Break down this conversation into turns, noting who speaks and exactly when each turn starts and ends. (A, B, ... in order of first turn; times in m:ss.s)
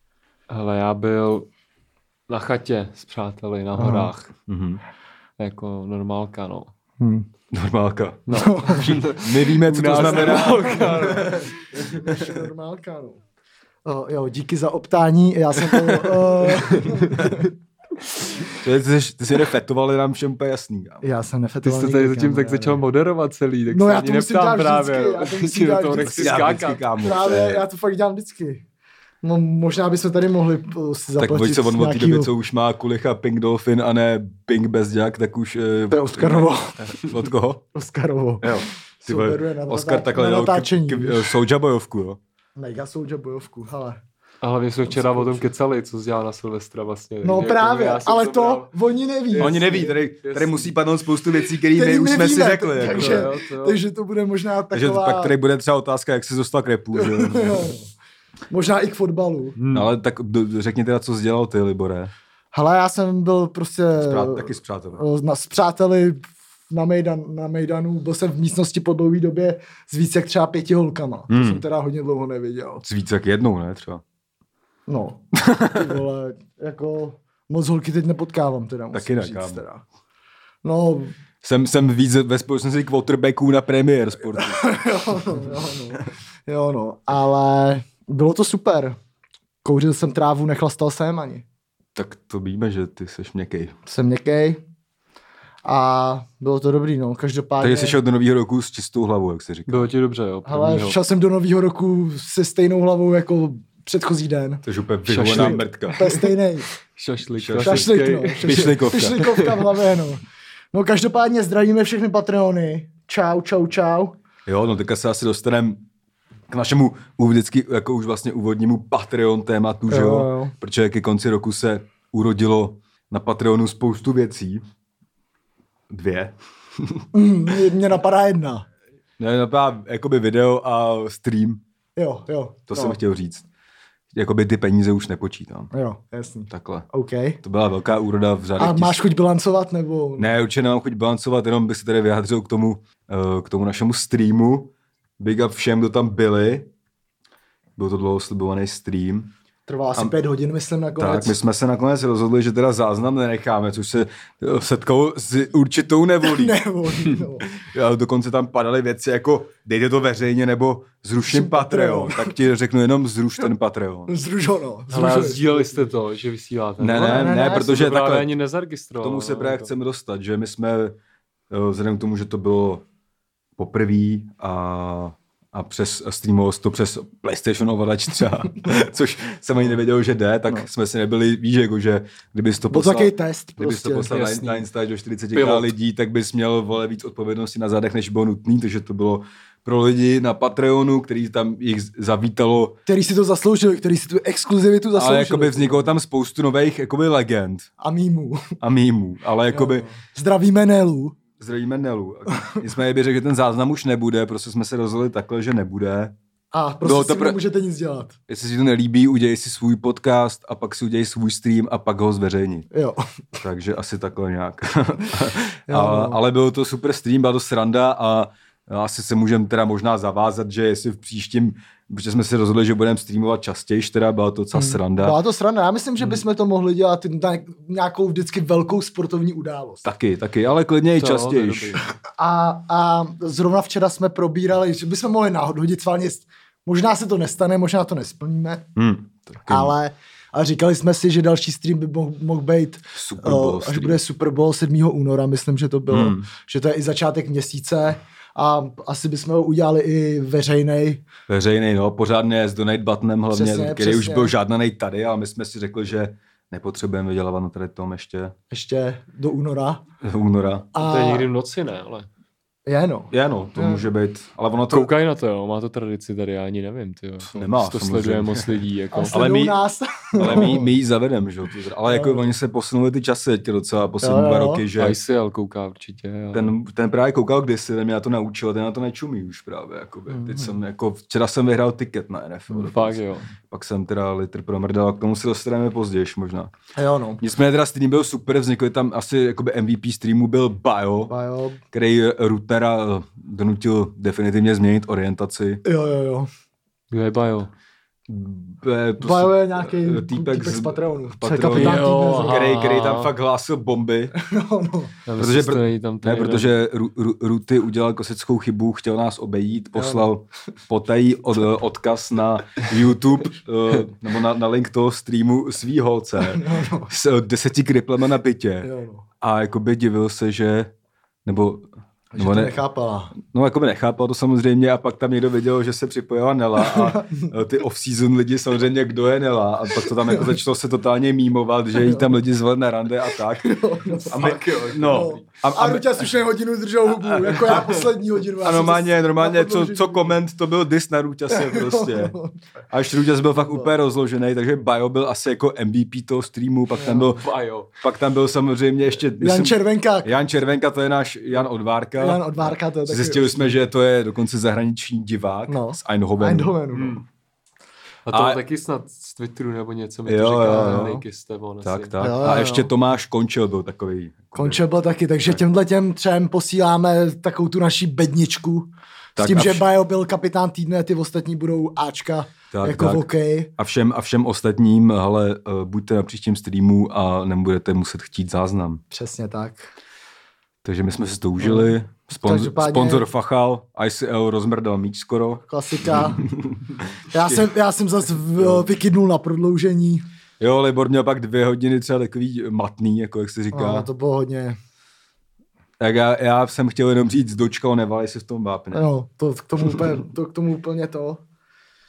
0:00.5-0:01.5 A
0:02.3-0:04.3 A
0:03.8-0:04.1 B
0:04.5-0:04.8 C
0:05.4-0:06.7 A
0:07.0-0:07.3 B
0:07.5-0:11.5 C
0:08.3-0:12.0 A
0:08.3-0:08.9 B
0:09.9-0:13.2 B
0:13.8-0:17.5 B
0:15.7-0:17.5 A
0:18.2-0:18.5 A
0:18.6-0:21.0 C
0:21.0-0:22.8 B
0:21.6-0:27.4 A
0:23.7-0:28.6 B
0:26.0-0:27.6 C
0:29.2-0:32.3 B
0:31.2-0:37.6 C
0:35.9-0:37.1 B
0:37.7-0:41.4 B
0:38.4-0:42.2 C
0:42.6-0:44.0 B
0:44.4-0:48.7 A
0:44.9-0:45.4 B
0:47.2-0:49.9 B
0:49.3-0:50.7 A
0:49.4-0:53.3 C
0:51.7-0:55.4 B
0:52.8-0:53.8 A
0:54.7-0:57.7 C
0:57.0-0:57.9 B
0:58.5-0:59.6 B
0:59.6-0:59.9 A
0:59.7-1:02.1 C
1:02.5-1:12.8 B
1:04.0-1:05.0 C
1:11.3-1:11.6 C
1:12.8-1:14.0 C
1:14.9-1:19.8 B
1:15.3-1:15.9 C
1:18.9-1:19.6 C
1:20.6-1:21.2 B
1:21.4-1:24.6 C
1:24.4-1:29.0 B
1:29.6-1:31.4 B
1:32.0-1:33.8 C
1:33.9-1:34.6 B
1:35.6-1:38.0 B
1:37.6-1:39.9 C
1:39.7-1:41.0 A
1:40.5-1:44.6 B
1:44.6-1:46.0 C
1:45.1-1:46.4 A
1:45.2-1:46.7 B
1:46.9-1:49.8 A
1:47.4-1:49.3 C
1:47.6-1:54.2 B
1:54.5-1:55.8 C
1:56.5-2:04.6 C
1:59.9-2:00.5 B
2:05.9-2:07.0 C
2:07.1-2:08.7 B
2:09.2-2:11.6 C
2:12.0-2:13.0 B
2:12.7-2:13.4 C
2:14.1-2:15.7 C
2:15.7-2:17.4 B
2:16.5-2:16.9 C
2:17.4-2:19.0 C
2:18.6-2:20.3 B
2:20.2-2:26.7 C
2:27.8-2:29.3 C
2:29.7-2:31.4 B
2:31.0-2:36.6 C
2:36.2-2:37.5 B
2:37.5-2:44.1 C
2:41.3-2:42.4 B
2:44.1-2:45.9 B
2:44.9-2:49.7 A
2:46.8-2:48.4 C
2:47.0-2:47.8 B
2:49.0-2:51.0 C
2:51.5-2:52.8 C
2:53.6-3:12.8 C
3:02.7-3:04.1 B
3:04.1-3:04.7 A
3:05.3-3:05.7 A
3:12.9-3:15.9 B
3:15.0-3:17.7 C
3:17.8-3:18.6 B
3:18.6-3:19.8 C
3:19.5-3:21.2 B
3:21.4-3:26.1 C
3:26.5-3:28.2 B
3:26.8-3:27.4 C
3:28.3-3:32.7 C
3:32.7-3:33.0 B
3:33.4-3:45.2 C
3:35.7-3:36.2 B
3:44.6-3:49.9 B
3:49.8-3:51.8 C
3:51.0-3:51.9 A
3:52.1-3:58.6 B
3:58.8-3:59.7 C
3:59.5-4:11.0 B
4:02.9-4:04.0 C
4:05.9-4:06.3 C
4:11.3-4:18.4 C
4:13.3-4:14.3 B
4:18.5-4:19.8 B
4:20.0-4:20.7 C
4:20.7-4:21.3 B
4:20.8-4:22.1 A
4:22.7-4:23.8 B
4:23.1-4:24.9 C
4:24.7-4:29.2 A
4:27.3-4:29.6 C
4:28.9-4:30.7 B
4:30.2-4:35.0 C
4:31.9-4:32.3 B
4:34.0-4:34.7 B
4:34.8-4:36.5 A
4:36.3-4:46.5 C
4:40.1-4:40.6 B
4:42.6-4:43.3 A
4:46.8-4:47.2 B
4:47.2-4:51.1 C
4:51.1-4:51.6 B
4:51.7-4:55.6 C
4:55.6-4:56.3 B
4:56.9-4:57.5 A
4:58.1-5:04.1 C
4:59.0-5:02.4 B
5:01.5-5:03.1 A
5:04.2-5:05.0 B
5:05.1-5:06.6 A
5:05.2-5:18.7 C
5:09.8-5:10.1 B
5:16.2-5:16.9 B
5:18.6-5:19.0 B
5:19.2-5:20.7 C
5:21.2-5:22.6 C
5:22.1-5:23.1 B
5:23.2-5:33.6 C
5:26.6-5:27.3 B
5:29.9-5:30.3 B
5:31.8-5:32.1 B
5:33.4-5:34.2 B
5:34.0-5:35.3 A
5:34.1-5:36.1 C
5:34.9-5:40.2 B
5:36.9-5:37.8 C
5:38.4-5:42.2 C
5:41.3-5:42.4 B
5:42.7-5:47.2 C
5:46.8-5:47.7 A
5:47.8-5:56.6 C
5:49.2-5:50.1 B
5:52.0-5:53.5 B
5:55.5-5:57.0 B
5:56.7-5:57.0 A
5:58.1-6:01.9 A
5:58.1-5:58.4 C
6:00.1-6:01.0 C
6:00.5-6:01.0 B
6:01.6-6:04.6 C
6:02.0-6:02.7 B
6:04.4-6:13.5 B
6:09.2-6:09.6 C
6:12.5-6:18.8 C
6:18.9-6:19.7 B
6:20.6-6:27.5 C
6:21.4-6:23.1 B
6:25.5-6:26.3 B
6:27.1-6:30.0 B
6:28.4-6:28.6 C
6:30.4-6:33.9 C
6:33.5-6:34.6 B
6:35.8-6:38.8 C
6:38.7-6:41.2 B